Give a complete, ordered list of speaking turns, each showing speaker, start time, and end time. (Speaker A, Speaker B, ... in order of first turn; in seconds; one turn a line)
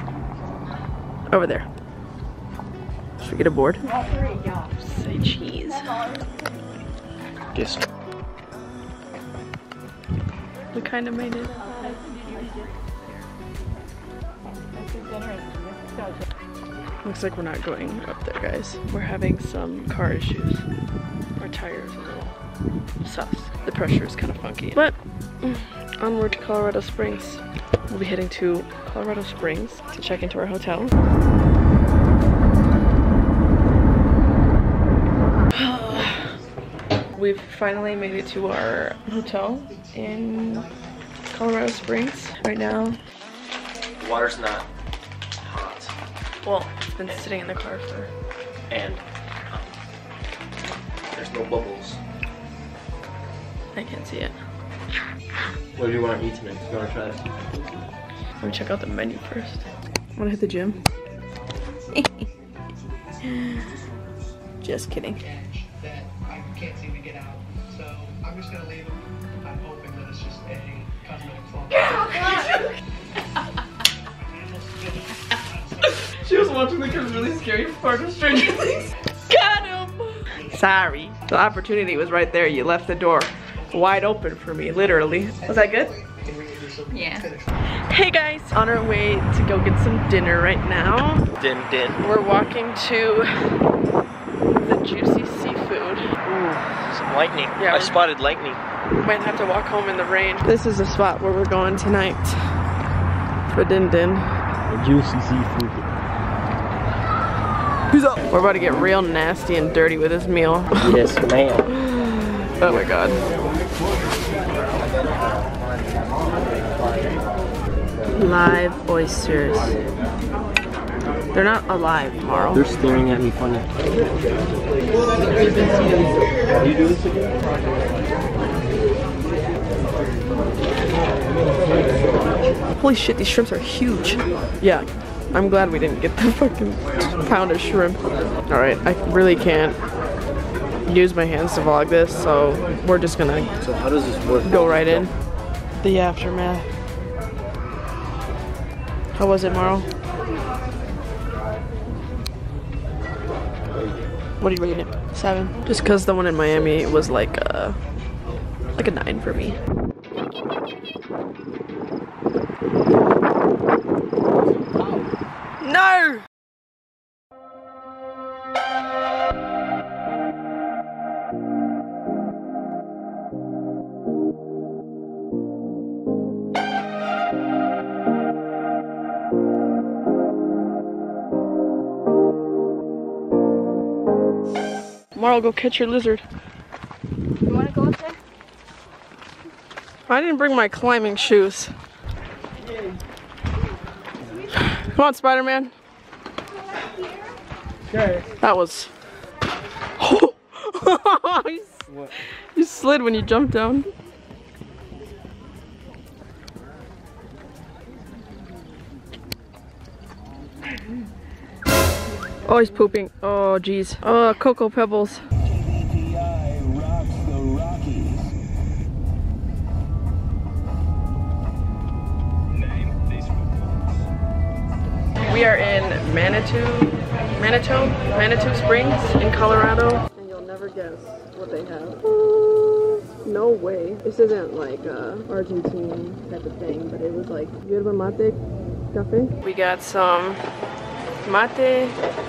Speaker A: 1.3-1.6
Speaker A: 3.2-3.8
Speaker A: 4.8-6.0
Speaker B: 7.5-7.8
Speaker A: 10.7-12.0
Speaker C: 11.8-12.6
Speaker C: 14.7-15.6
Speaker A: 17.0-20.6
Speaker A: 21.4-22.3
Speaker A: 23.0-30.9
Speaker A: 35.5-36.2
Speaker A: 37.1-40.7
Speaker A: 41.3-43.0
Speaker B: 44.0-44.7
Speaker B: 45.4-45.9
Speaker A: 46.4-48.1
Speaker B: 48.7-49.8
Speaker B: 51.1-52.0
Speaker A: 53.7-54.4
Speaker B: 55.8-57.5
Speaker A: 58.4-60.8
Speaker A: 64.6-65.2
Speaker D: 65.2-71.9
Speaker A: 71.7-72.6
Speaker A: 75.8-86.0
Speaker D: 86.2-87.2
Speaker C: 86.9-87.3
Speaker A: 87.7-91.3
Speaker B: 91.3-92.0
Speaker A: 92.0-93.5
Speaker A: 94.5-96.8
Speaker B: 96.8-98.6
Speaker A: 97.5-98.0
Speaker A: 99.0-102.6
Speaker A: 103.5-104.3
Speaker B: 104.7-105.9
Speaker A: 107.9-111.0
Speaker B: 110.8-111.7
Speaker A: 111.7-113.2
Speaker A: 118.1-119.9
Speaker A: 121.3-122.6
Speaker B: 122.5-123.7
Speaker B: 126.5-127.4
Speaker A: 132.8-139.8
Speaker A: 140.8-143.5
Speaker B: 143.6-145.1
Speaker A: 144.4-145.1
Speaker A: 145.8-146.7
Speaker A: 149.1-149.8
Speaker A: 154.4-157.8
Speaker A: 158.8-159.6
Speaker A: 165.6-166.2
Speaker A: 185.1-186.2
Speaker C: 187.4-188.2
Speaker A: 190.1-191.7
Speaker A: 194.5-195.7
Speaker A: 198.4-198.9
Speaker A: 200.0-201.9
Speaker B: 201.9-202.1
Speaker A: 202.5-203.9
Speaker A: 212.4-215.2
Speaker B: 215.6-218.2
Speaker A: 225.2-238.4
Speaker A: 238.9-240.4
Speaker A: 241.2-242.0